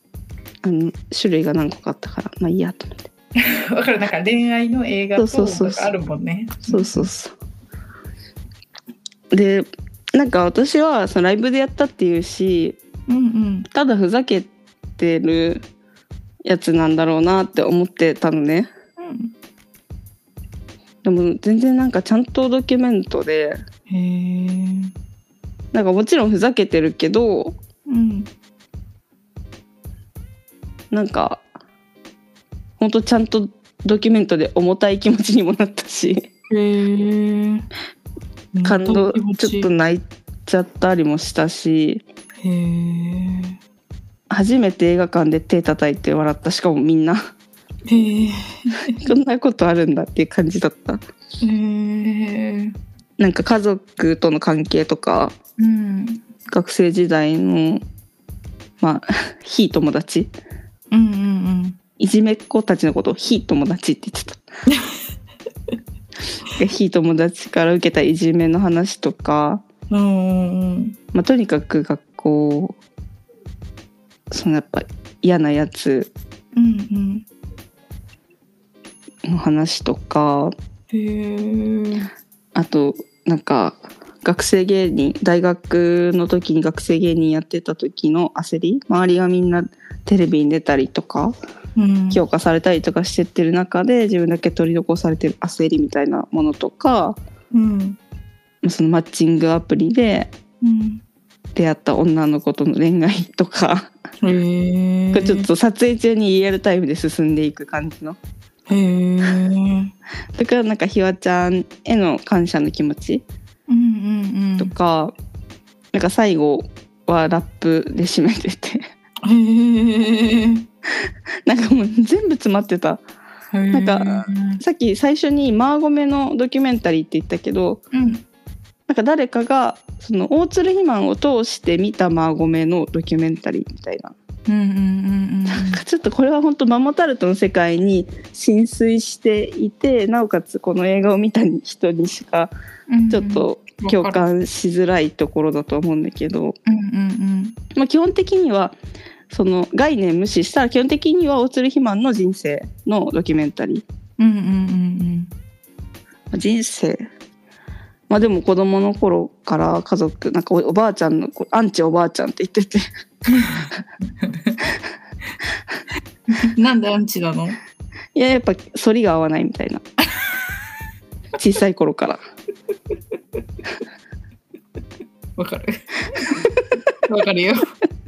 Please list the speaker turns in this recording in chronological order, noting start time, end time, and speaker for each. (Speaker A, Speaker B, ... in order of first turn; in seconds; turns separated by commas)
Speaker A: 0.6-3.1, Speaker B: 3.4-7.1, Speaker A: 5.2-5.9, Speaker A: 6.7-7.3, Speaker A: 9.3-12.8, Speaker B: 13.1-13.7, Speaker A: 13.7-15.7, Speaker A: 16.4-18.7, Speaker B: 19.0-19.3, Speaker A: 21.0-23.6, Speaker B: 23.9-24.9, Speaker A: 25.7-27.6, Speaker B: 27.9-28.3, Speaker A: 30.9-31.4, Speaker A: 32.8-36.3, Speaker B: 36.5-37.7, Speaker B: 38.5-39.9, Speaker A: 38.6-42.0, Speaker B: 42.4-43.6, Speaker A: 44.3-47.3, Speaker B: 47.9-49.0, Speaker A: 49.0-51.0, Speaker B: 51.4-52.8, Speaker A: 53.2-55.4, Speaker B: 55.6-56.2, Speaker A: 56.5-57.8, Speaker A: 58.8-60.3, Speaker B: 60.9-61.8, Speaker A: 62.0-64.4, Speaker A: 66.5-69.6, Speaker B: 69.9-71.0, Speaker A: 71.1-72.8, Speaker A: 74.3-76.1, Speaker B: 76.5-77.3, Speaker A: 79.3-80.5, Speaker B: 80.9-82.1, Speaker A: 82.5-91.3, Speaker B: 91.8-92.2, Speaker A: 92.1-97.2, Speaker B: 97.5-98.0, Speaker A: 98.6-100.3, Speaker B: 100.6-101.0, Speaker A: 101.5-103.9, Speaker B: 104.2-105.5, Speaker A: 105.1-108.2, Speaker B: 108.7-109.9, Speaker A: 110.3-113.2, Speaker B: 113.7-114.7, Speaker A: 114.6-115.2, Speaker A: 115.9-118.9, Speaker B: 119.2-120.7, Speaker A: 121.5-123.0, Speaker B: 123.5-124.6, Speaker A: 123.7-127.8, Speaker B: 127.9-128.2, Speaker A: 128.9-134.2, Speaker B: 134.5-135.8, Speaker A: 135.5-142.5, Speaker B: 142.9-144.3, Speaker A: 143.1-146.6, Speaker B: 146.7-147.6, Speaker A: 147.8-148.8, Speaker A: 149.3-153.8, Speaker B: 154.2-155.3, Speaker A: 156.3-157.1, Speaker A: 158.1-162.8, Speaker B: 163.3-164.6, Speaker B: 166.3-167.6, Speaker A: 168.2-169.8, Speaker A: 171.3-172.2, Speaker B: 175.4-177.7